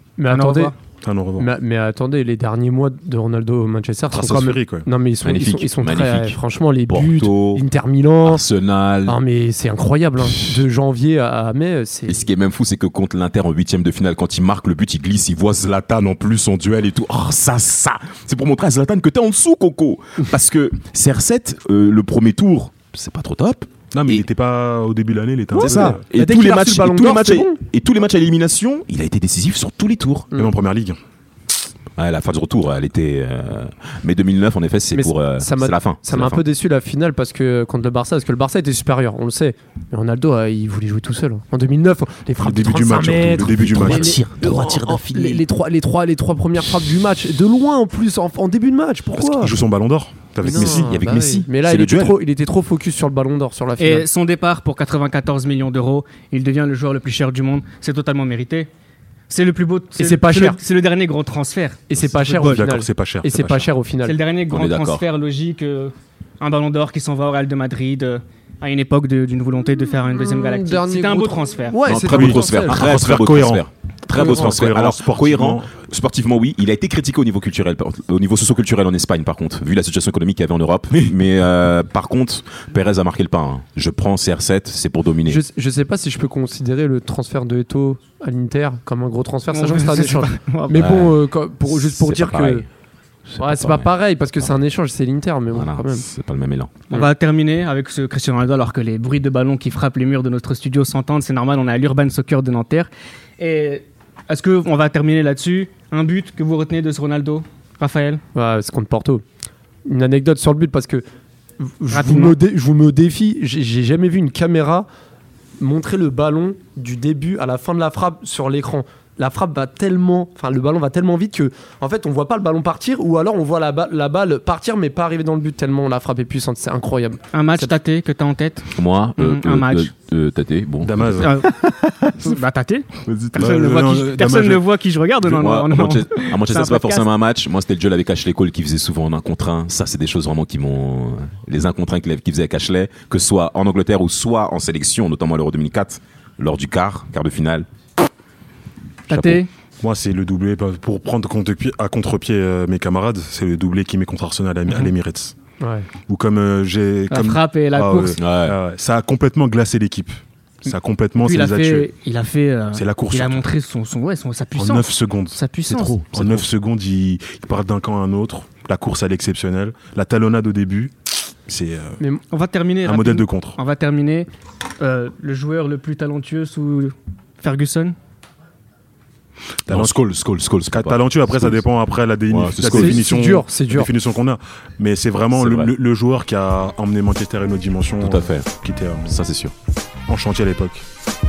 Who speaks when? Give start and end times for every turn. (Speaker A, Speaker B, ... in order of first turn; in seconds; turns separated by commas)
Speaker A: 0.2-0.7, Speaker B: 0.3-0.7, Speaker C: 1.0-1.5, Speaker A: 1.4-8.4, Speaker C: 4.1-4.9, Speaker D: 5.2-7.6, Speaker D: 8.2-9.2, Speaker A: 9.0-12.2, Speaker D: 12.1-24.2, Speaker C: 23.9-26.0, Speaker A: 25.5-27.6, Speaker D: 25.5-30.3, Speaker C: 30.3-31.0, Speaker D: 32.0-36.4, Speaker A: 34.9-49.5, Speaker C: 42.4-44.2, Speaker D: 43.4-45.4, Speaker C: 49.2-50.9, Speaker D: 50.4-52.2, Speaker A: 50.4-54.1, Speaker B: 53.8-58.7, Speaker B: 59.3-62.6, Speaker A: 60.0-60.6, Speaker A: 61.9-64.2, Speaker C: 62.5-63.7, Speaker B: 64.0-71.8, Speaker D: 64.5-65.0, Speaker A: 70.2-73.0, Speaker D: 71.8-85.4, Speaker C: 72.0-75.7, Speaker A: 74.2-74.5, Speaker A: 85.3-92.6, Speaker B: 89.5-90.9, Speaker D: 90.7-92.7, Speaker D: 93.3-93.9, Speaker A: 93.4-96.0, Speaker D: 95.5-96.7, Speaker B: 96.9-108.2, Speaker A: 108.3-109.2, Speaker A: 109.8-111.0, Speaker A: 111.6-114.9, Speaker B: 111.9-112.4, Speaker A: 115.6-127.7, Speaker B: 127.3-129.9, Speaker D: 128.7-132.3, Speaker C: 130.8-131.4, Speaker B: 131.2-131.5, Speaker B: 132.1-137.1, Speaker D: 133.1-133.5, Speaker C: 133.3-134.6, Speaker D: 135.2-147.7, Speaker B: 149.1-149.5, Speaker D: 149.1-149.4, Speaker C: 149.8-155.3, Speaker A: 155.6-155.9, Speaker C: 156.1-161.9, Speaker B: 157.1-158.2, Speaker D: 158.2-158.6, Speaker B: 161.2-166.0, Speaker C: 162.7-163.4, Speaker C: 164.6-165.4, Speaker D: 165.7-166.5, Speaker C: 166.1-170.9, Speaker C: 171.4-172.0, Speaker B: 172.3-174.3, Speaker C: 172.8-173.6, Speaker B: 174.8-177.9, Speaker C: 179.7-180.0, Speaker D: 179.7-181.6, Speaker C: 180.7-189.2, Speaker D: 182.3-183.1, Speaker A: 182.7-183.9, Speaker D: 185.3-185.7, Speaker D: 188.0-188.5, Speaker D: 189.1-189.5, Speaker C: 190.1-190.8